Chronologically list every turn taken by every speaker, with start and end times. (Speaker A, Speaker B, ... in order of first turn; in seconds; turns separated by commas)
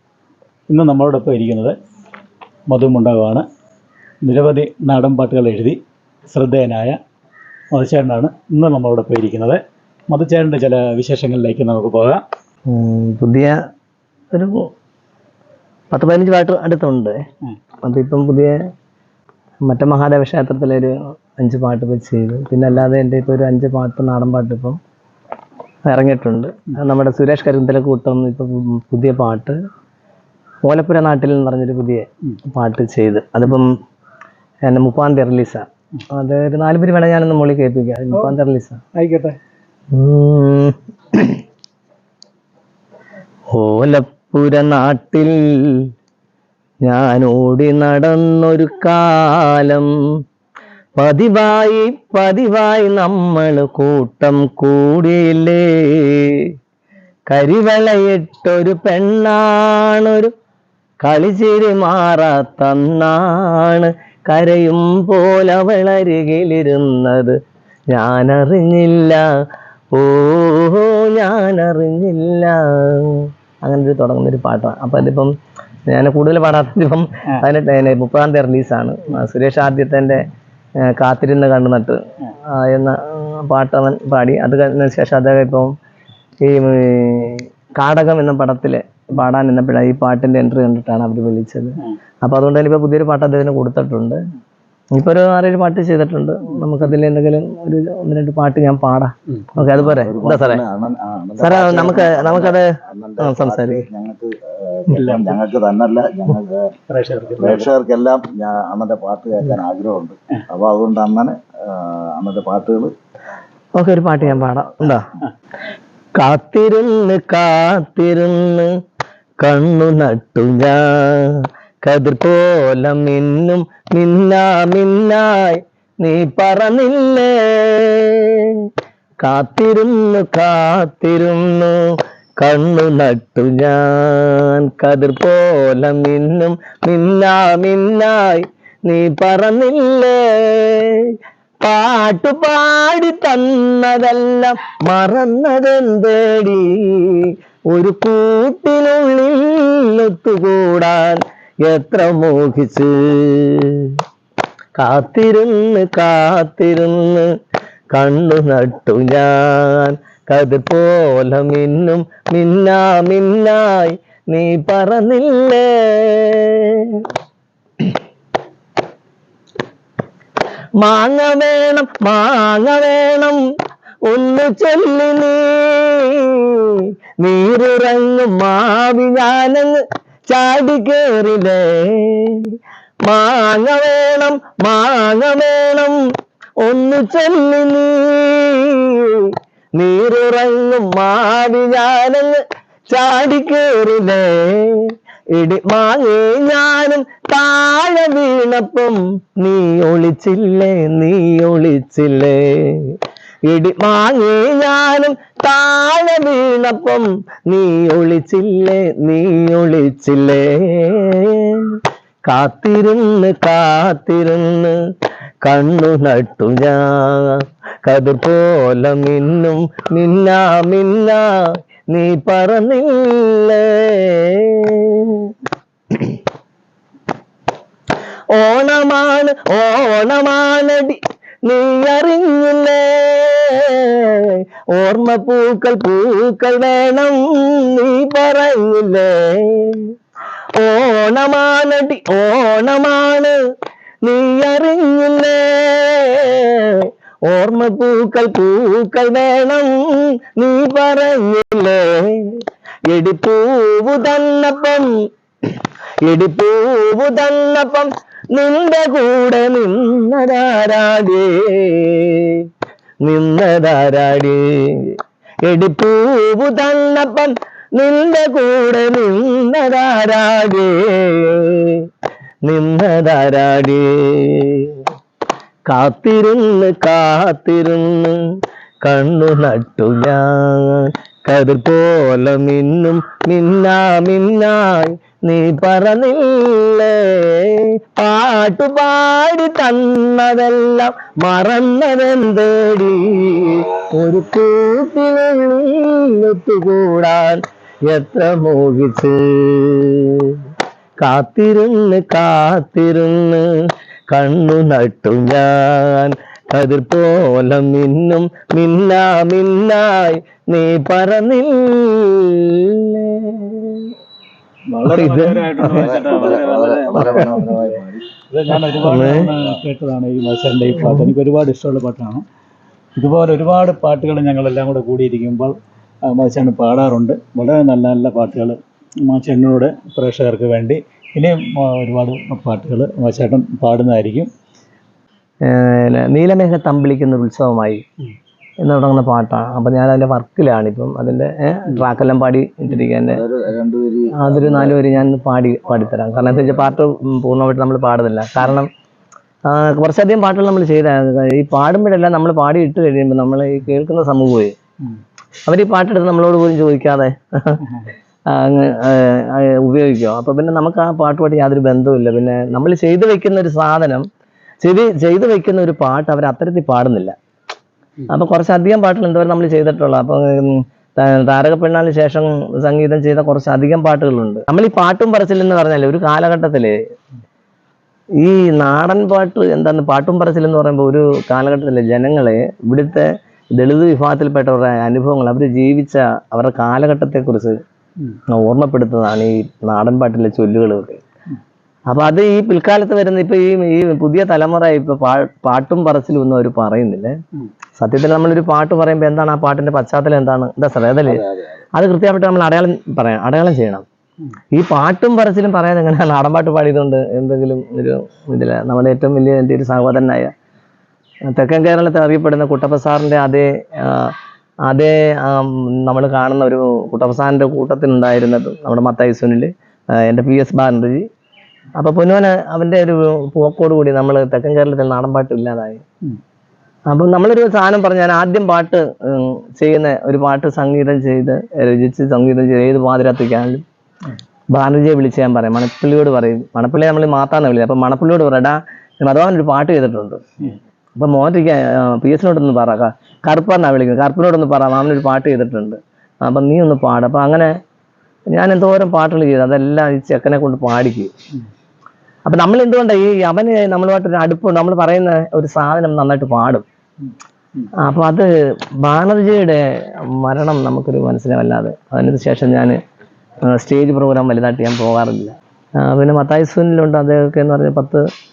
Speaker A: 0.7-1.7, Speaker A: 2.7-3.4, Speaker A: 4.2-5.8, Speaker A: 6.3-7.0, Speaker A: 7.7-12.2, Speaker B: 12.7-13.6, Speaker B: 15.9-17.1, Speaker B: 17.8-18.5, Speaker B: 19.6-24.8, Speaker B: 25.9-29.6, Speaker B: 30.6-33.7, Speaker B: 34.7-38.8, Speaker A: 39.0-39.4, Speaker B: 39.9-41.4, Speaker B: 43.5-45.9, Speaker B: 46.9-49.9, Speaker B: 51.0-56.5, Speaker B: 57.3-60.3, Speaker B: 61.0-67.4, Speaker B: 67.9-69.2, Speaker B: 69.9-75.3, Speaker B: 75.9-80.2, Speaker B: 80.8-82.0, Speaker B: 82.5-85.7, Speaker B: 86.4-94.2, Speaker B: 95.0-100.6, Speaker C: 99.6-106.7, Speaker B: 101.4-103.9, Speaker A: 104.9-105.4, Speaker A: 106.9-107.7, Speaker C: 107.4-112.9, Speaker B: 113.8-115.1, Speaker B: 116.2-118.7, Speaker B: 119.4-128.7, Speaker B: 129.2-131.8, Speaker B: 132.4-154.0, Speaker B: 154.8-157.3, Speaker B: 157.9-167.0, Speaker B: 170.8-173.4, Speaker B: 174.1-182.5, Speaker B: 183.1-186.0, Speaker B: 186.6-203.0, Speaker B: 203.5-214.7, Speaker B: 215.4-221.3, Speaker B: 221.9-225.3, Speaker B: 228.3-239.9, Speaker B: 240.6-243.3, Speaker B: 244.0-254.9, Speaker B: 256.0-262.5, Speaker B: 263.0-271.9, Speaker B: 272.4-274.8, Speaker B: 275.7-278.2, Speaker B: 278.8-300.4, Speaker B: 301.0-303.4, Speaker B: 304.1-313.9, Speaker A: 314.7-317.4, Speaker B: 314.9-315.9, Speaker C: 315.7-318.1, Speaker B: 316.9-317.4, Speaker A: 318.3-322.2, Speaker B: 318.5-319.3, Speaker B: 320.8-321.1, Speaker A: 323.0-325.6, Speaker A: 326.1-334.3, Speaker B: 335.4-337.8, Speaker B: 338.6-343.2, Speaker C: 343.1-344.8, Speaker B: 344.2-348.7, Speaker C: 346.3-346.6, Speaker B: 349.5-354.5, Speaker B: 355.4-357.6, Speaker B: 358.3-364.0, Speaker B: 364.6-367.1, Speaker B: 368.1-376.8, Speaker B: 378.2-387.6, Speaker B: 388.3-391.0, Speaker B: 391.9-397.1, Speaker B: 397.8-403.8, Speaker C: 401.1-401.4, Speaker B: 404.5-410.3, Speaker B: 411.3-414.1, Speaker B: 414.7-421.1, Speaker B: 421.8-425.8, Speaker B: 426.9-433.6, Speaker B: 434.5-447.5, Speaker B: 448.3-451.1, Speaker B: 452.2-456.6, Speaker B: 457.8-458.2, Speaker B: 458.8-459.6, Speaker B: 460.1-462.8, Speaker B: 463.4-468.0